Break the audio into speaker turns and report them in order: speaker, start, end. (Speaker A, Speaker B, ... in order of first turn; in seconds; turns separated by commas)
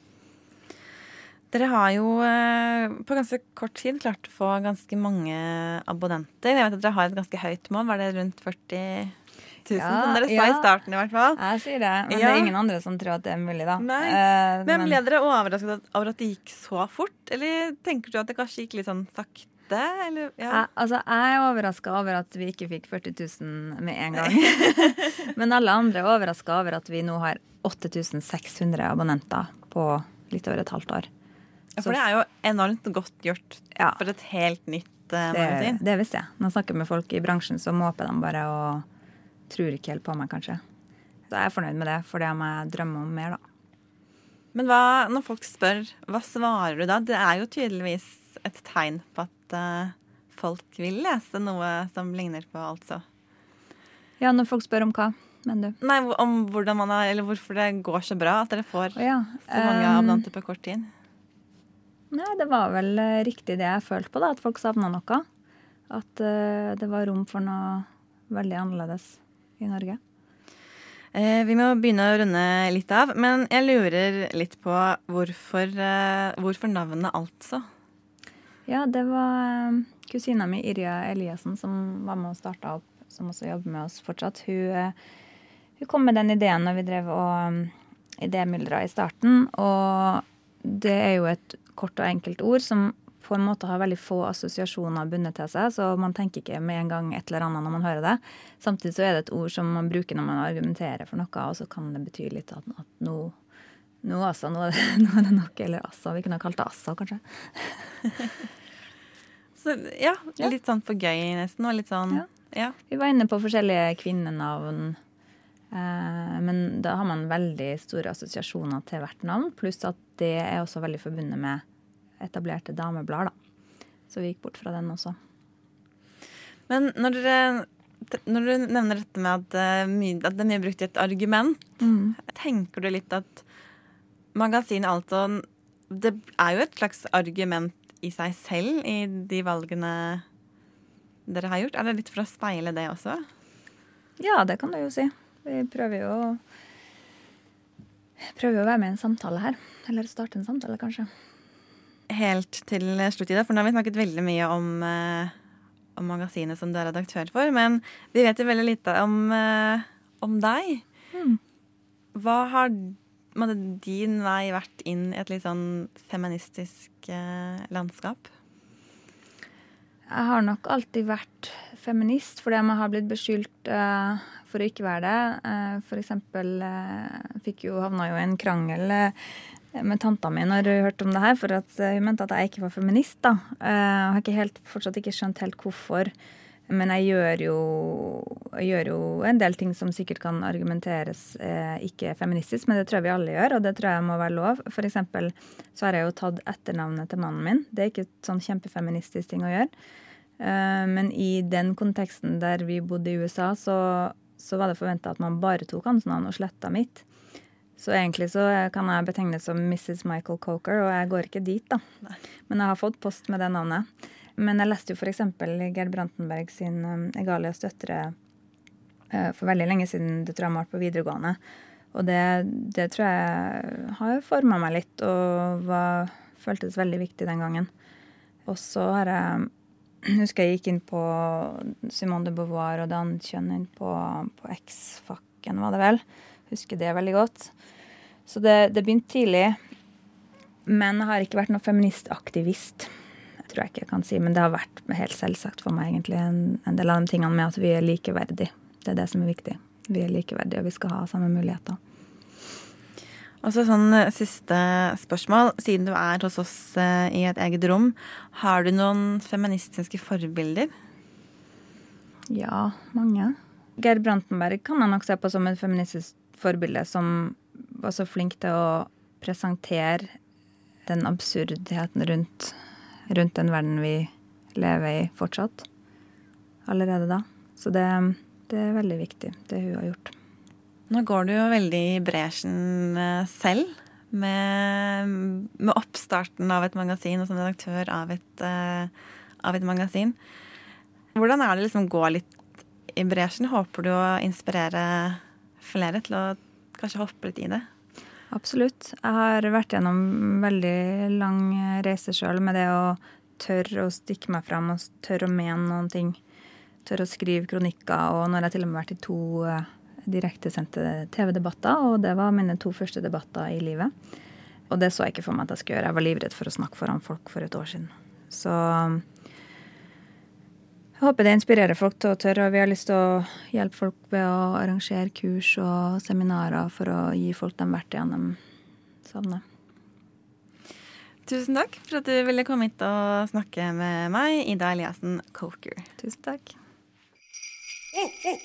Speaker A: 1.5-9.1, Speaker A: 9.6-11.4, Speaker B: 9.7-10.7, Speaker B: 11.3-15.0, Speaker A: 12.1-12.5, Speaker A: 13.8-20.6, Speaker B: 20.5-31.1, Speaker A: 24.2-25.1, Speaker A: 31.8-35.8, Speaker B: 35.3-38.8, Speaker B: 39.5-40.6, Speaker B: 41.3-43.4, Speaker A: 44.5-53.0, Speaker B: 54.2-55.8, Speaker A: 55.8-60.9, Speaker B: 59.0-60.2, Speaker B: 62.1-65.2, Speaker B: 65.9-70.0, Speaker A: 71.1-77.7, Speaker B: 78.7-84.9, Speaker B: 85.8-103.3, Speaker B: 104.0-108.3, Speaker A: 109.6-112.7, Speaker B: 112.9-115.0, Speaker B: 115.7-121.6, Speaker B: 122.2-123.3, Speaker B: 124.1-125.2, Speaker A: 126.7-133.4, Speaker B: 131.8-132.2, Speaker A: 134.3-140.2, Speaker A: 141.3-143.2, Speaker B: 144.2-146.4, Speaker B: 148.3-151.1, Speaker A: 152.1-155.3, Speaker A: 155.9-160.8, Speaker B: 161.1-161.4, Speaker A: 162.1-168.3, Speaker B: 170.1-179.2, Speaker B: 179.7-186.1, Speaker B: 186.7-199.7, Speaker B: 200.4-207.0, Speaker B: 207.8-211.8, Speaker B: 212.5-218.1, Speaker B: 219.1-221.4, Speaker B: 221.9-227.7, Speaker B: 228.4-229.5, Speaker B: 230.0-237.5, Speaker B: 238.3-239.6, Speaker B: 240.7-242.9, Speaker B: 243.5-251.8, Speaker A: 253.4-260.7, Speaker B: 262.3-270.1, Speaker B: 270.9-272.6, Speaker B: 273.1-275.6, Speaker B: 276.6-280.1, Speaker A: 280.9-290.2, Speaker A: 291.1-292.4, Speaker A: 292.9-297.6, Speaker B: 298.3-306.2, Speaker B: 306.8-313.9, Speaker B: 314.7-319.0, Speaker B: 321.0-328.4, Speaker B: 329.0-329.4, Speaker A: 331.2-335.9, Speaker B: 336.0-336.5